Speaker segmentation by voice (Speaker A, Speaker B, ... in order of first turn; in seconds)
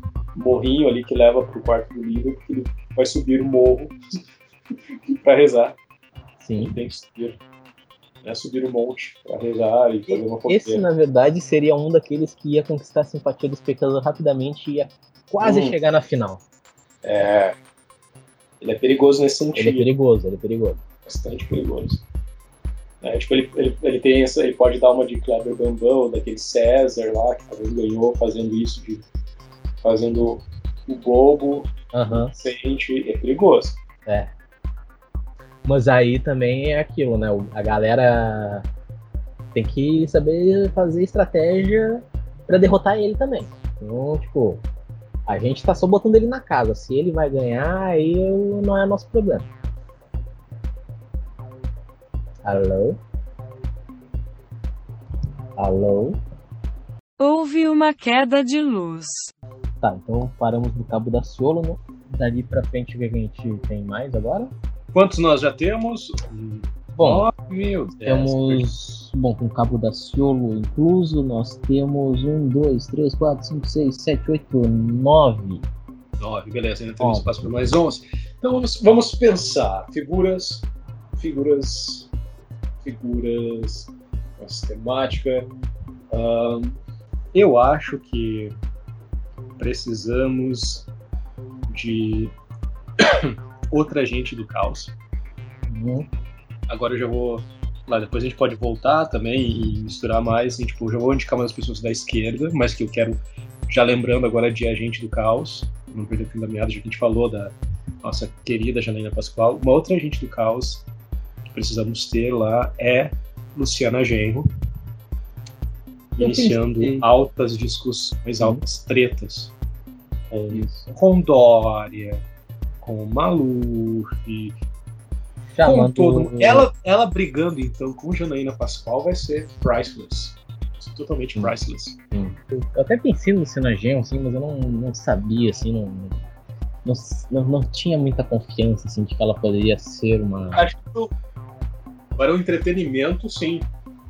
Speaker A: 0.3-4.0, 4.9-5.8, 6.6-7.4, 8.2-10.8, 15.4-15.8, 17.0-17.6, 18.6-19.9, 21.1-22.0, 23.0-29.1, 29.8-33.8, 64.9-68.7, 76.2-82.1, 82.8-85.5, 86.1-86.8, 87.3-88.5, 89.6-90.9, 91.7-92.3, 93.0-94.9, 96.7-110.9, 111.5-114.5, 116.2-119.5, 120.5-122.2, 122.8-124.5, 125.6-132.0, 140.5-141.1, 142.2-143.7
Speaker B: 6.4-6.8, 10.1-16.4, 19.6-20.8, 31.9-32.3, 34.1-34.3, 35.6-38.7, 39.5-44.6, 45.3-49.5, 52.5-53.0, 55.6-56.2, 59.8-64.5, 67.0-67.3, 68.0-75.7, 77.0-77.3, 95.7-96.1, 116.2-117.1, 120.3-121.0, 125.5-126.7, 132.1-136.2, 136.8-140.7
Speaker C: 57.2-59.3